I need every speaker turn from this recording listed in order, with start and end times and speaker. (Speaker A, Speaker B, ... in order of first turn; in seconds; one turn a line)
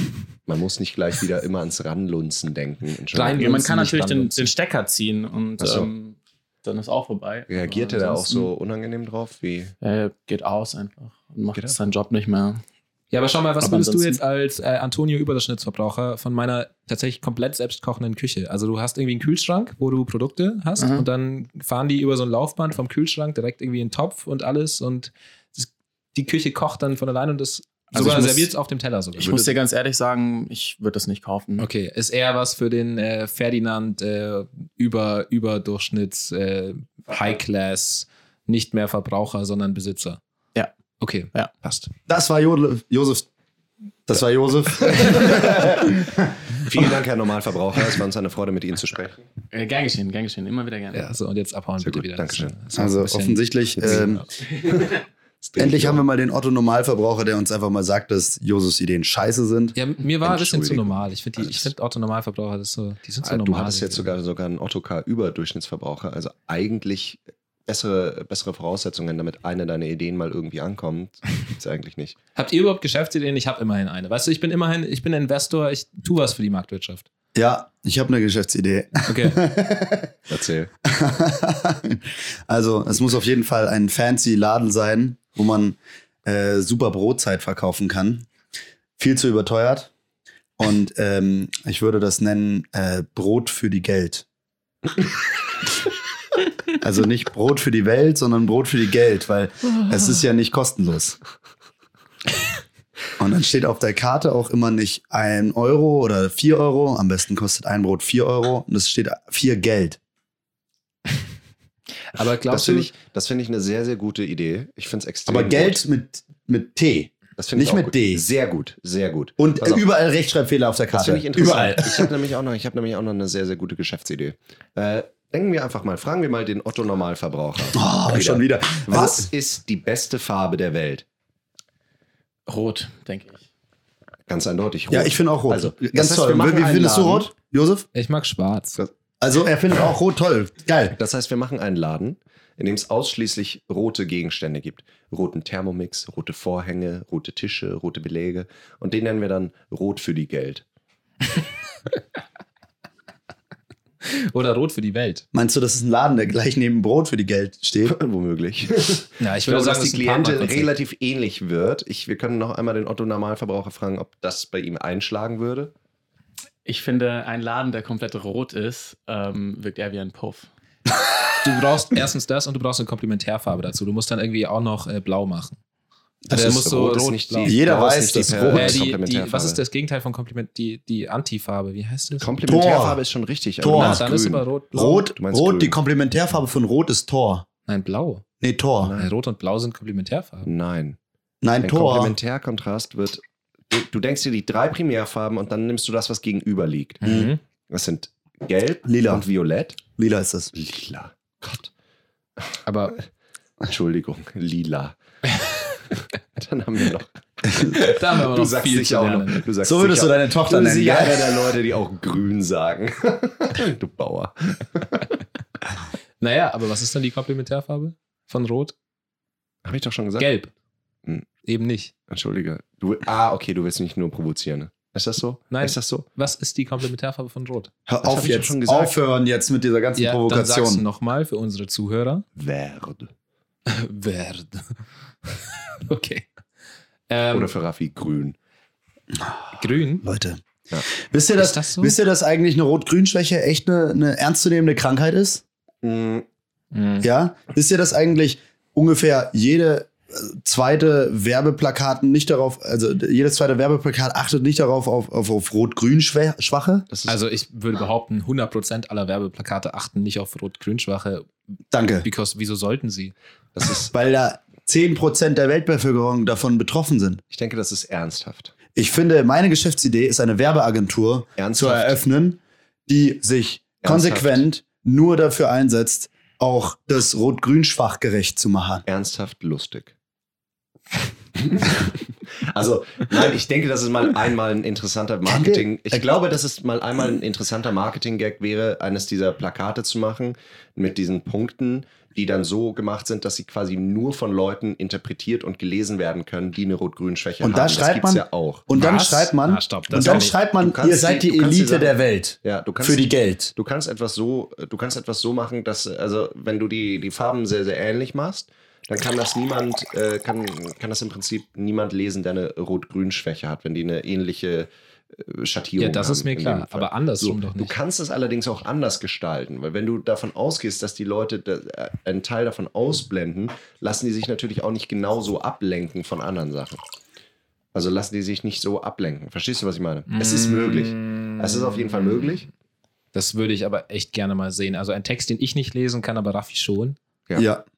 Speaker A: 0.5-3.5
Speaker B: 3.1-4.5
Speaker C: 3.3-8.5
Speaker A: 5.6-5.9
Speaker A: 7.5-9.7
Speaker C: 9.8-12.6
Speaker B: 13.1-29.5
Speaker C: 13.6-14.2
Speaker C: 20.8-21.1
Speaker C: 27.9-28.5
Speaker C: 29.2-31.7
Speaker B: 31.6-40.2
Speaker B: 41.0-41.9
Speaker D: 42.1-43.3
Speaker D: 44.1-46.3
Speaker A: 44.9-45.8
Speaker A: 46.5-49.2
Speaker C: 49.5-51.1
Speaker B: 50.9-54.2
Speaker A: 51.8-52.5
Speaker D: 52.8-54.2
Speaker A: 54.6-56.0
Speaker D: 55.6-59.8
Speaker B: 59.7-64.1
Speaker A: 60.2-61.7
Speaker A: 63.2-72.2
Speaker B: 72.4-77.1
Speaker D: 77.3-80.2
Speaker B: 79.1-79.4
Speaker A: 80.3-80.7
Speaker D: 80.8-88.3
Speaker D: 89.0-89.9
Speaker D: 90.6-94.2
Speaker D: 96.7-101.2
Speaker D: 103.2-110.0
Speaker B: 112.1-112.9
Speaker A: 112.5-115.8
Speaker D: 115.3-118.2
Speaker A: 117.4-119.8
Speaker D: 119.4-122.1
Speaker A: 120.9-131.1
Speaker D: 127.7-129.3
Speaker C: 132.5-133.4
Speaker A: 134.3-137.3
Speaker D: 134.9-137.9
Speaker B: 137.9-138.8
Speaker D: 139.2-141.0
Speaker A: 141.0-150.6
Speaker B: 154.0-155.2
Speaker D: 155.3-157.9
Speaker A: 157.8-165.7
Speaker B: 159.2-160.7
Speaker C: 166.6-170.5
Speaker B: 171.4-175.6
Speaker D: 176.2-176.6
Speaker B: 176.3-177.6
Speaker A: 176.3-179.6
Speaker D: 177.4-178.8
Speaker B: 178.5-182.3
Speaker A: 182.2-184.4
Speaker D: 182.4-183.0
Speaker D: 183.6-184.1
Speaker B: 183.7-185.1
Speaker D: 184.7-187.4
Speaker A: 185.2-185.8
Speaker B: 187.7-188.2
Speaker D: 188.4-188.9
Speaker A: 188.8-189.1
Speaker B: 189.0-190.5
Speaker A: 190.4-191.0
Speaker D: 191.4-192.2
Speaker A: 191.6-199.8
Speaker B: 197.0-197.4
Speaker D: 198.9-199.2
Speaker D: 200.0-200.5
Speaker A: 200.5-201.7
Speaker B: 202.6-203.0
Speaker A: 203.7-205.5
Speaker A: 206.4-215.2
Speaker B: 207.7-209.4
Speaker D: 209.6-211.5
Speaker B: 216.2-218.7
Speaker A: 219.6-220.3
Speaker B: 220.2-220.5
Speaker B: 221.4-221.9
Speaker A: 222.1-226.1
Speaker B: 225.5-227.7
Speaker D: 227.9-230.8
Speaker A: 228.0-228.9
Speaker B: 230.0-232.2
Speaker A: 232.4-233.1
Speaker B: 233.7-234.7
Speaker B: 235.3-236.2
Speaker B: 237.1-237.5
Speaker A: 237.3-238.4
Speaker D: 239.1-239.5
Speaker B: 239.6-240.1
Speaker D: 240.0-245.4
Speaker B: 241.4-242.0
Speaker A: 245.8-246.2
Speaker B: 246.7-247.1
Speaker D: 247.0-256.9
Speaker A: 256.9-257.2
Speaker B: 257.1-261.3
Speaker D: 261.7-262.1
Speaker B: 262.0-263.1
Speaker A: 263.6-263.9
Speaker D: 263.9-267.2
Speaker A: 267.3-268.5
Speaker D: 268.7-278.9
Speaker A: 271.4-272.0
Speaker A: 273.8-274.4
Speaker A: 278.9-279.9
Speaker A: 281.4-281.9
Speaker A: 282.4-298.6
Speaker D: 285.3-286.0
Speaker D: 297.4-303.5
Speaker B: 298.7-300.3
Speaker A: 299.9-326.8
Speaker B: 315.8-317.7
Speaker A: 327.7-332.5
Speaker B: 330.1-331.8
Speaker B: 333.1-337.0
Speaker D: 337.4-337.6